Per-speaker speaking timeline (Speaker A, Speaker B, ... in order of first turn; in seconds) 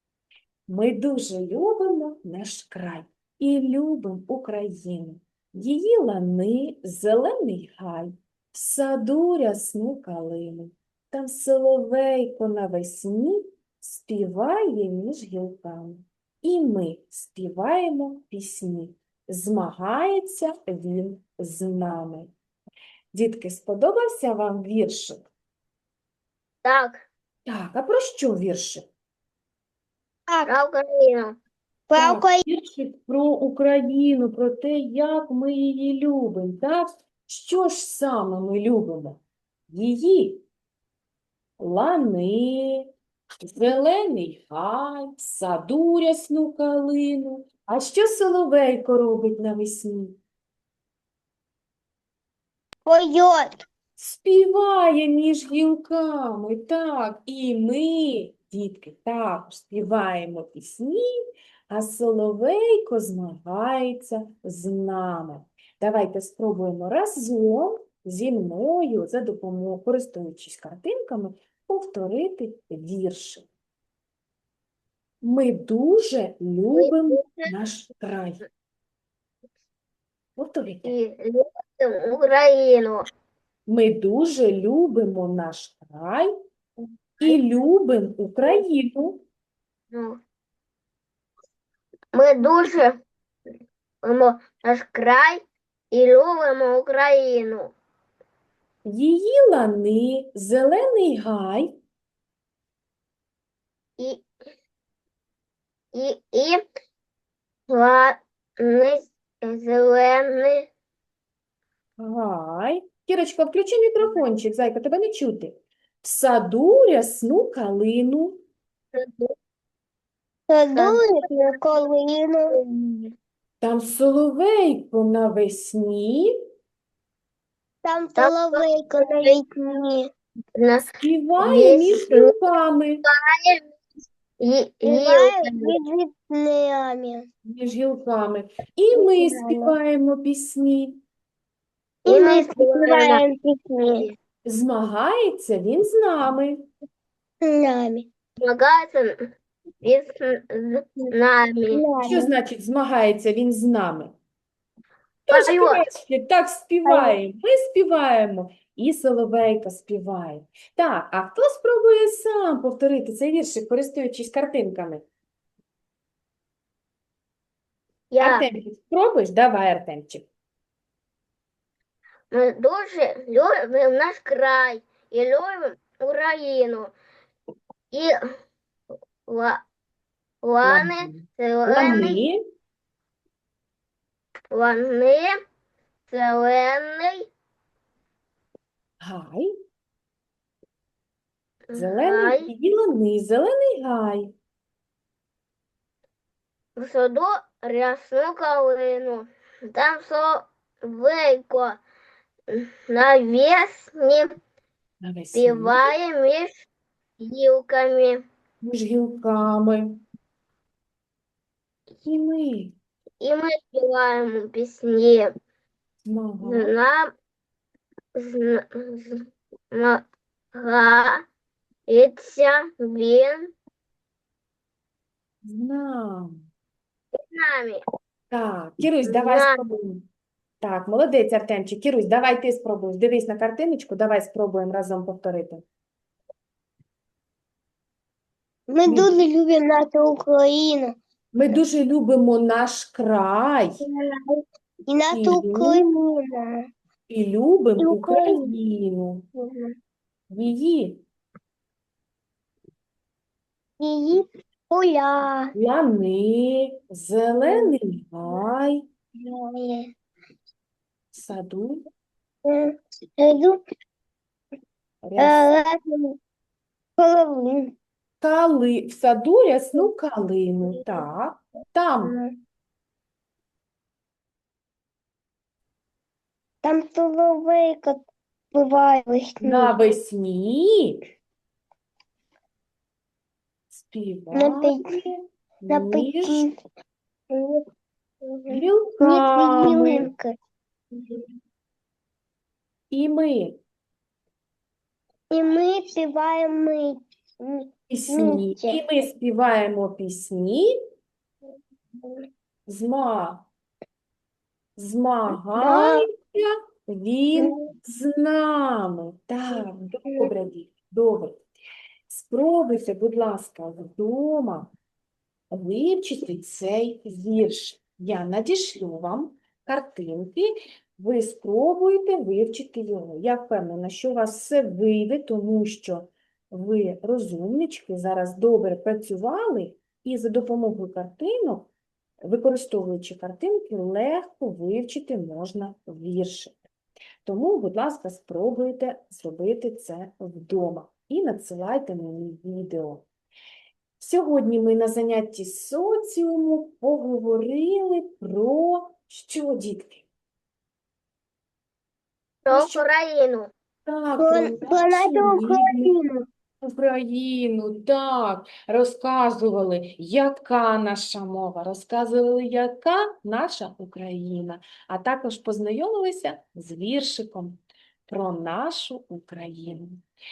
Speaker A: 0.7-22.3, 23.1-25.2, 27.4-28.9, 31.9-40.4, 41.6-42.9, 43.4-50.2, 54.0-61.0, 61.7-73.5, 75.2-78.4, 80.3-80.9, 83.7-86.3, 87.2-89.2, 98.8-101.7, 112.0-118.4, 123.6-126.3, 131.0-133.0, 137.4-141.0, 144.4-146.6, 152.0-154.1, 155.3-165.0, 168.2-170.2, 180.6-182.4, 189.0-189.5, 191.7-194.3, 205.0-205.9, 208.6-210.0, 212.0-212.7, 216.0-216.7, 225.4-226.3, 228.3-230.0, 230.6-235.6, 238.8-239.1, 241.3-243.7, 245.1-245.9, 247.1-249.2, 250.3-251.0, 255.5-258.8, 261.1-261.8, 265.0-265.5, 268.2-272.1, 279.4-281.0, 283.7-286.5, 288.5-290.1, 292.9-293.6, 297.9-300.7, 302.7-303.5, 304.8-311.4, 312.1-314.7, 315.5-331.7, 332.2-336.5, 337.2-343.0, 344.0-350.1, 352.5-352.9, 353.9-355.9, 356.6-370.0
Speaker B: 26.6-27.0, 30.4-31.4, 76.7-77.5, 80.8-83.1, 89.9-90.2, 92.1-93.0, 94.0-97.7, 104.0-104.3, 105.9-106.6, 107.7-110.7, 118.9-119.3, 120.7-121.7, 122.5-123.1, 128.2-129.4, 130.6-132.3, 133.1-133.7, 134.4-135.8, 142.1-143.2, 148.4-149.2, 149.8-151.8, 155.3-155.8, 168.1-168.5, 172.3-176.9, 179.2-179.6, 180.4-182.2, 184.5-185.3, 186.1-187.3, 191.7-192.5, 196.8-201.8, 202.5-204.3, 205.3-206.7, 207.2-208.2, 213.2-215.3, 216.4-217.1, 218.1-221.3, 221.9-223.5, 227.2-227.8, 229.1-229.6, 352.4-353.5
Speaker C: 31.9-32.4, 52.8-53.6, 120.5-122.5, 127.8-130.1, 134.8-137.3, 138.9-139.8, 142.0-144.1, 147.4-148.1, 151.7-152.3, 156.8-157.2, 238.7-240.9, 243.8-246.7, 247.8-248.5, 249.3-249.7, 253.8-255.5, 257.5-257.7, 259.2-259.9, 262.4-263.6, 265.2-266.2, 267.0-267.7, 272.0-272.3, 276.6-279.8, 284.3-285.0, 285.7-286.5, 287.3-287.6, 288.2-290.3, 295.3-298.8, 305.6-306.0, 354.2-356.2